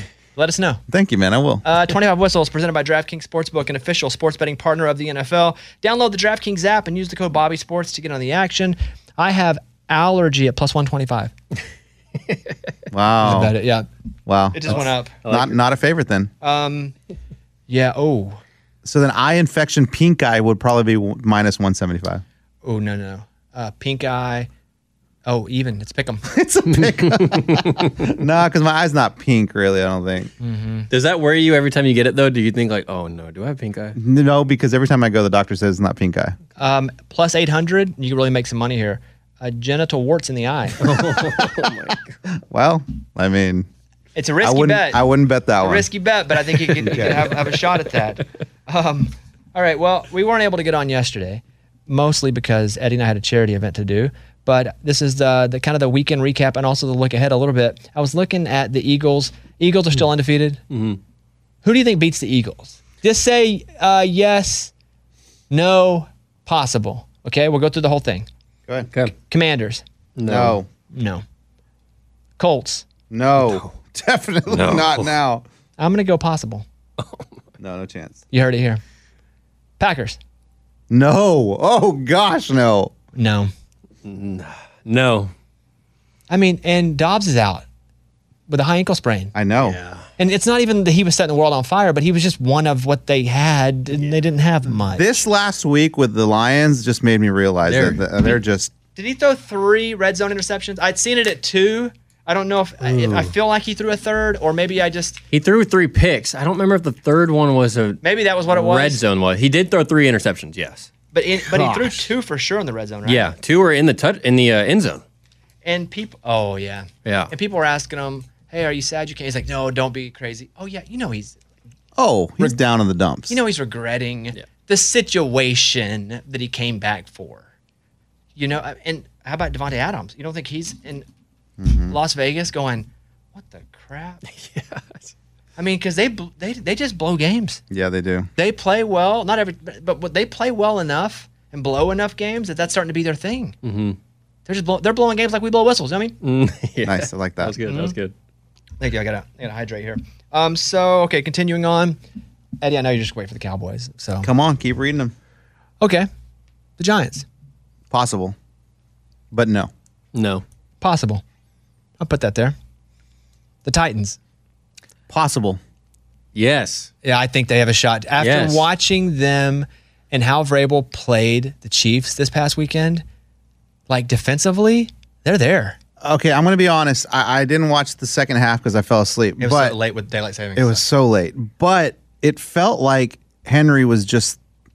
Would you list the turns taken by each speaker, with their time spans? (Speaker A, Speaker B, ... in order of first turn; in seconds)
Speaker A: 0.4-0.8, 1.6-11.3, 13.2-13.9, 14.5-15.2, 16.4-16.9, 17.7-18.4, 22.6-24.5, 25.3-26.3, 30.4-30.9, 36.6-40.9, 44.1-45.1, 45.6-60.6, 61.6-64.7, 65.5-68.3, 69.2-69.8, 70.9-71.2, 72.4-72.9, 75.8-76.7, 78.3-78.8, 79.8-80.2, 83.2-83.5, 86.3-87.7, 88.5-89.3, 90.2-95.2, 99.0-105.2, 108.0-109.0, 111.1-113.3, 115.6-121.4, 123.3-127.5, 128.4-131.1, 131.9-134.2, 135.6-137.6, 138.4-143.6, 144.5-146.2, 147.7-148.0, 148.8-152.0, 152.6-154.3, 155.8-156.1, 156.8-157.3, 160.8-161.2, 162.0-162.6, 163.7-164.2, 167.0-173.0, 173.9-175.8, 179.4-180.8
Speaker B: 0.9-1.6, 12.9-13.6, 14.3-16.3, 18.8-22.2, 26.2-30.3, 34.0-36.4, 42.3-43.7, 44.4-45.9, 46.9-47.2, 70.3-70.7, 73.1-75.5, 77.6-78.2, 80.9-82.9, 89.3-89.8, 94.9-98.7, 111.5-112.0, 122.0-123.4, 131.6-132.0, 137.7-138.3, 146.8-147.6, 154.2-155.1, 157.9-158.3, 159.3-159.7, 165.1-165.6, 176.0-179.8, 180.6-184.4
Speaker C: 14.7-15.5, 26.8-28.0, 30.9-34.0, 40.8-42.1, 46.9-47.2, 60.7-61.0, 70.2-70.6, 73.4-73.7, 74.5-75.1, 77.0-77.3, 84.0-85.3, 89.6-90.0, 97.7-98.0, 105.3-110.9, 113.0-115.0, 117.0-117.3, 134.3-135.1, 143.6-144.0, 146.2-148.1, 160.1-160.4, 166.3-166.9, 168.2-168.7